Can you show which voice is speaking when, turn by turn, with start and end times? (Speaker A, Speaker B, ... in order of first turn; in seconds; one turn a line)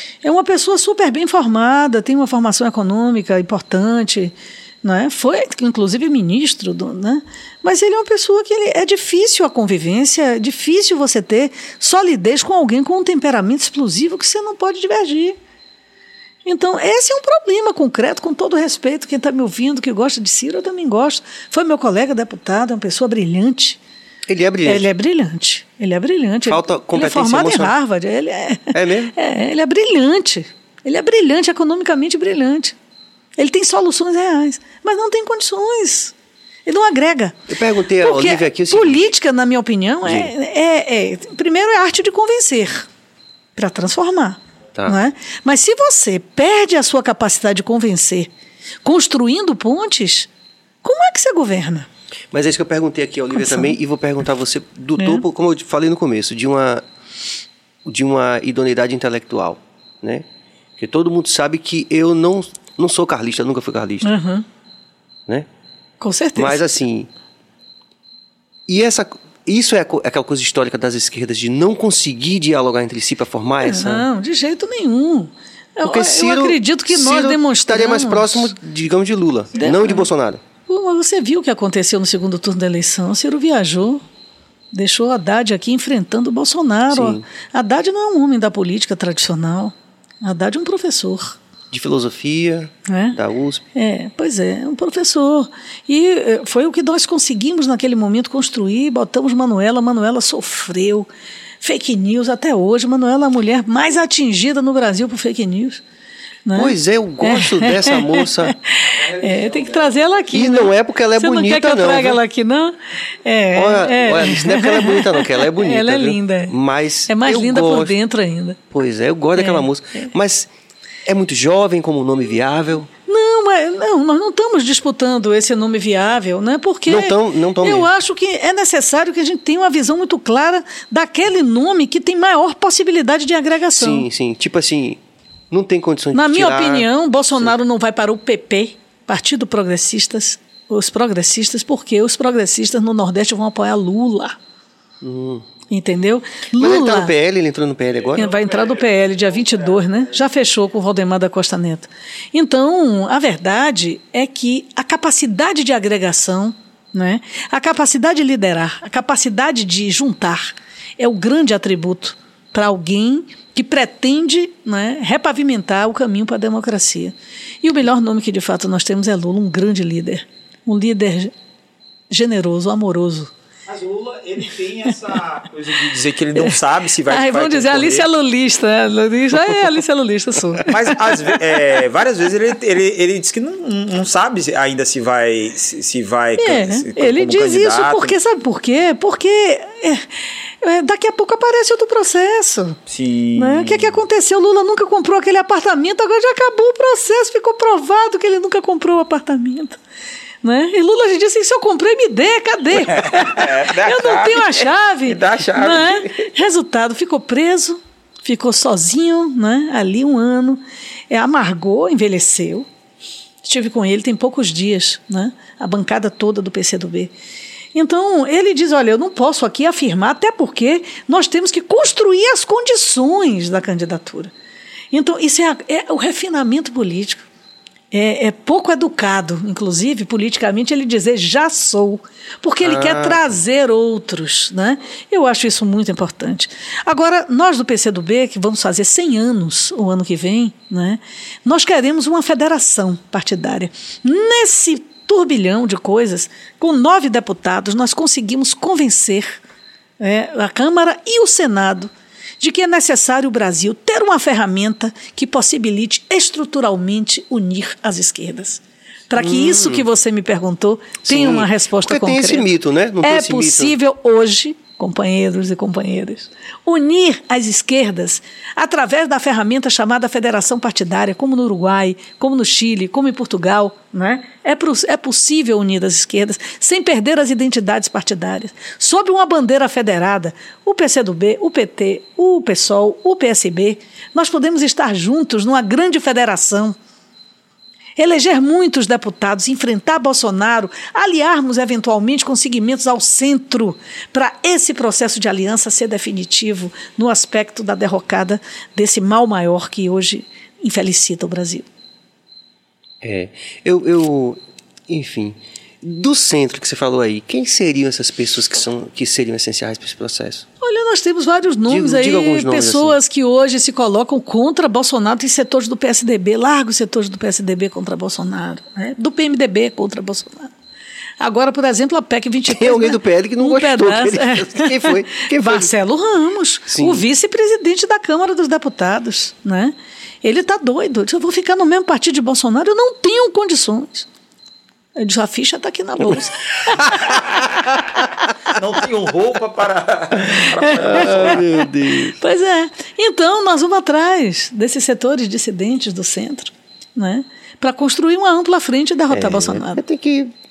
Speaker A: 0.2-15.4
Speaker A: 16.4-23.8
Speaker B: 24.3-24.9
Speaker A: 24.6-32.8
Speaker B: 26.5-27.8
Speaker B: 28.7-29.1
Speaker A: 33.4-36.1
Speaker A: 36.7-42.9
Speaker B: 37.5-39.0
Speaker B: 40.0-40.3
Speaker A: 43.5-48.3
Speaker A: 48.8-50.3
Speaker A: 50.8-51.9
Speaker B: 52.3-56.8
Speaker A: 53.4-53.8
Speaker A: 55.0-55.2
Speaker B: 57.9-60.3
Speaker B: 60.8-64.1
Speaker A: 64.0-64.5
Speaker A: 66.0-66.6
Speaker B: 66.4-67.1
Speaker B: 68.7-74.1
Speaker A: 73.6-78.5
Speaker B: 75.8-80.4
Speaker A: 79.6-80.1
Speaker A: 80.7-84.0
Speaker A: 84.7-91.4
Speaker B: 86.9-87.2
Speaker B: 91.7-93.6
Speaker A: 92.9-93.2
Speaker A: 93.8-101.1
Speaker A: 101.6-105.8
Speaker A: 106.5-116.5
Speaker B: 106.5-108.5
Speaker B: 110.3-112.2
Speaker B: 113.5-117.9
Speaker A: 117.1-118.6
Speaker B: 118.7-120.5
Speaker A: 119.4-119.7
Speaker B: 121.1-122.9
Speaker A: 123.1-134.1
Speaker B: 126.9-127.9
Speaker B: 133.7-135.0
Speaker B: 135.5-136.9
Speaker A: 136.1-144.4
Speaker B: 145.0-145.4
Speaker A: 145.7-147.1
Speaker B: 146.6-148.3
Speaker A: 148.2-171.3
Speaker A: 172.1-173.3
Speaker C: 173.7-178.1
Speaker A: 176.3-181.3
Speaker C: 180.7-188.2
Speaker A: 186.4-192.8
Speaker C: 192.9-194.0
Speaker A: 193.4-199.8
Speaker A: 200.4-212.7
Speaker C: 202.9-206.1
Speaker A: 213.4-217.1
Speaker A: 217.7-224.3
Speaker A: 224.9-227.2
Speaker A: 227.9-249.4
Speaker B: 232.6-233.3
Speaker A: 250.0-262.5
Speaker B: 259.2-259.9
Speaker B: 261.1-263.8
Speaker A: 263.0-286.8
Speaker A: 288.0-301.7
Speaker B: 303.0-310.5
Speaker A: 310.6-320.5
Speaker B: 311.7-313.0
Speaker A: 321.2-334.1
Speaker B: 322.5-325.7
Speaker B: 326.7-327.0
Speaker A: 335.0-336.9
Speaker C: 337.0-337.3
Speaker C: 338.5-341.4
Speaker B: 340.3-342.2
Speaker A: 340.5-341.5
Speaker A: 342.0-349.8
Speaker B: 349.1-350.3